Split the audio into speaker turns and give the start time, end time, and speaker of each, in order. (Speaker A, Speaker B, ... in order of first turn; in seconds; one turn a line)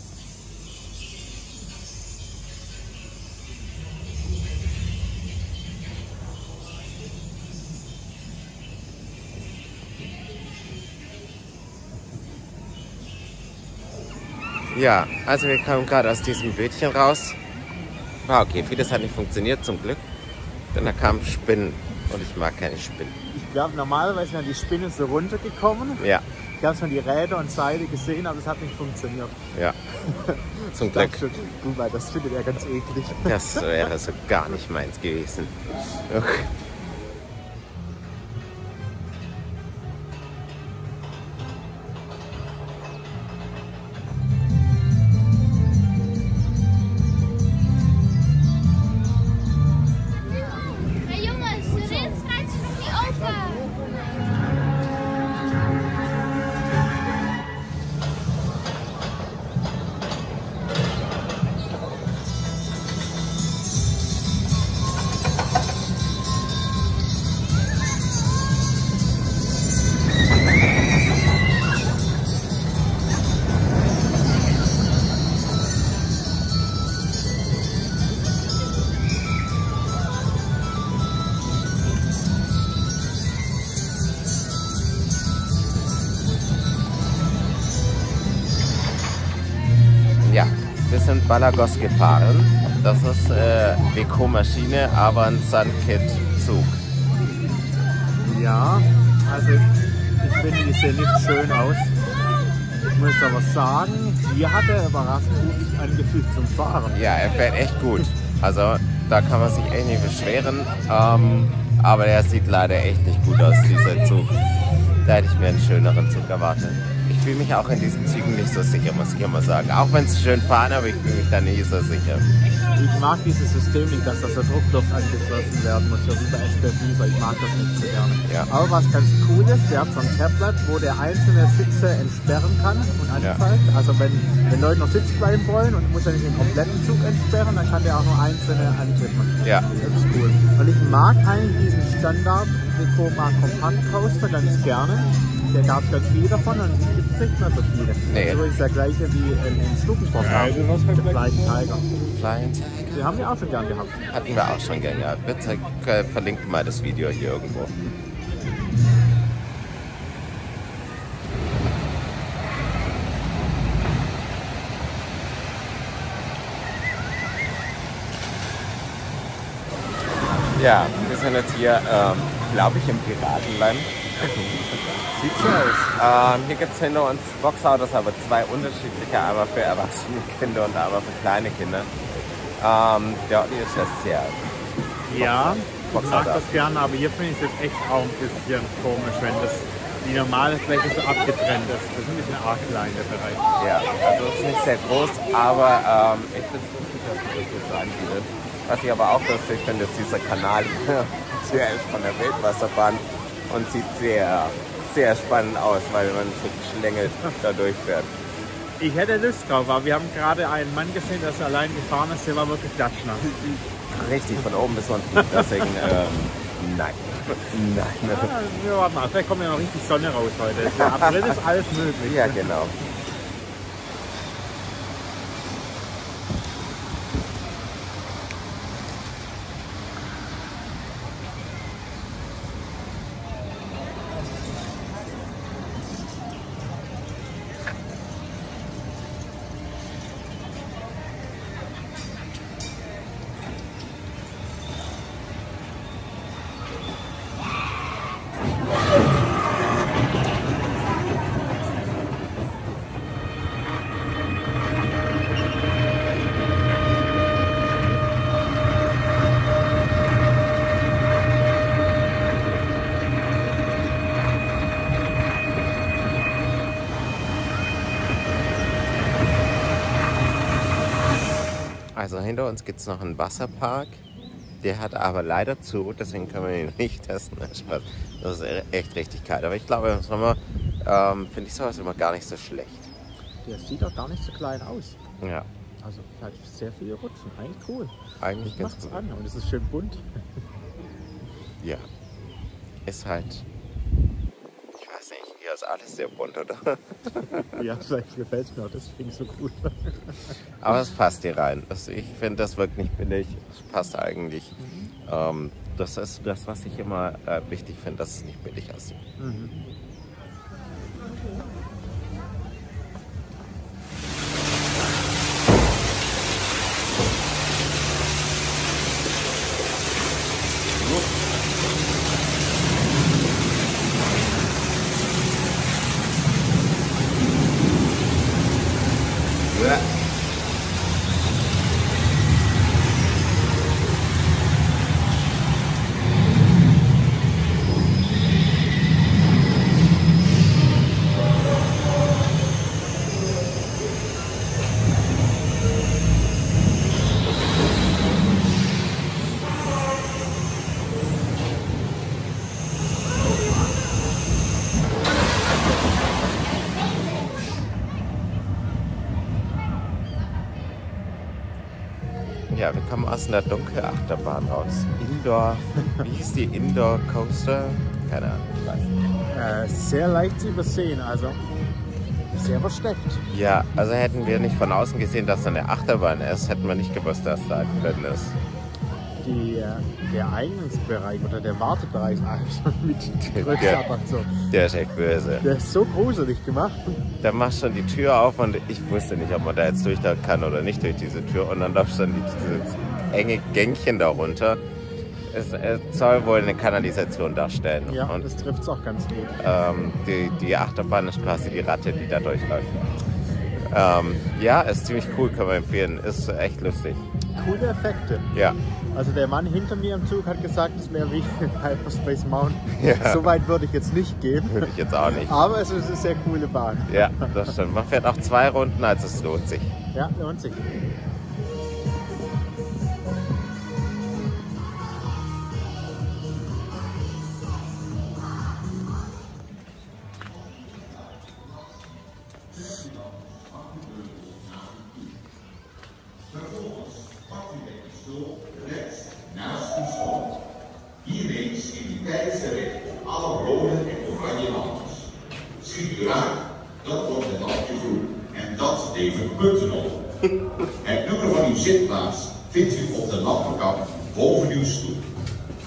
Speaker A: 14.7-17.4
Speaker A: 18.2-20.0
Speaker A: 20.7-23.2
Speaker B: 23.3-26.1
Speaker A: 26.0-26.2
Speaker B: 26.6-29.4
Speaker B: 30.0-33.6
Speaker A: 30.7-31.2
Speaker A: 33.2-36.5
Speaker A: 90.2-96.8
Speaker B: 98.2-102.0
Speaker B: 102.9-107.0
Speaker A: 106.9-114.3
Speaker A: 115.0-122.2
Speaker B: 122.8-151.9
Speaker A: 148.1-148.4
Speaker A: 152.1-153.3
Speaker B: 152.9-154.1
Speaker A: 154.1-157.7
Speaker A: 170.5-181.9
Speaker A: 182.6-184.4
Speaker B: 185.1-193.4
Speaker A: 185.1-186.5
Speaker A: 193.6-208.1
Speaker B: 208.8-213.5
Speaker A: 213.9-218.3
Speaker B: 215.2-215.7
Speaker B: 218.1-222.5
Speaker A: 222.0-222.8
Speaker A: 271.9-274.0
Speaker A: 274.6-282.9
Speaker B: 283.4-285.0
Speaker A: 285.2-285.5
Speaker B: 285.8-290.0
Speaker A: 288.2-289.0
Speaker A: 291.6-291.9
Speaker A: 292.9-293.4
Speaker A: 294.8-297.6
Speaker B: 297.5-300.3
Speaker A: 300.6-309.0
Speaker B: 304.6-304.9
Speaker B: 309.2-309.6
Speaker A: 329.5-329.8
Speaker A: 362.5-369.0
Speaker B: 369.3-371.4
Speaker B: 372.3-373.2
Speaker A: 373.3-378.4
Speaker B: 379.2-384.5
Speaker A: 383.3-383.8
Speaker A: 384.5-385.4
Speaker B: 385.4-387.0
Speaker A: 387.2-394.6
Speaker A: 395.3-398.2
Speaker B: 397.9-399.4
Speaker A: 399.4-402.9
Speaker A: 403.6-407.0
Speaker B: 407.3-408.3
Speaker B: 408.9-417.3
Speaker A: 412.7-413.3
Speaker A: 414.5-415.3
Speaker A: 416.9-419.7
Speaker B: 419.9-420.7
Speaker C: 430.2-435.2
Speaker C: 436.3-440.4
Speaker C: 441.0-445.1
Speaker C: 445.6-450.0
Speaker C: 450.8-455.0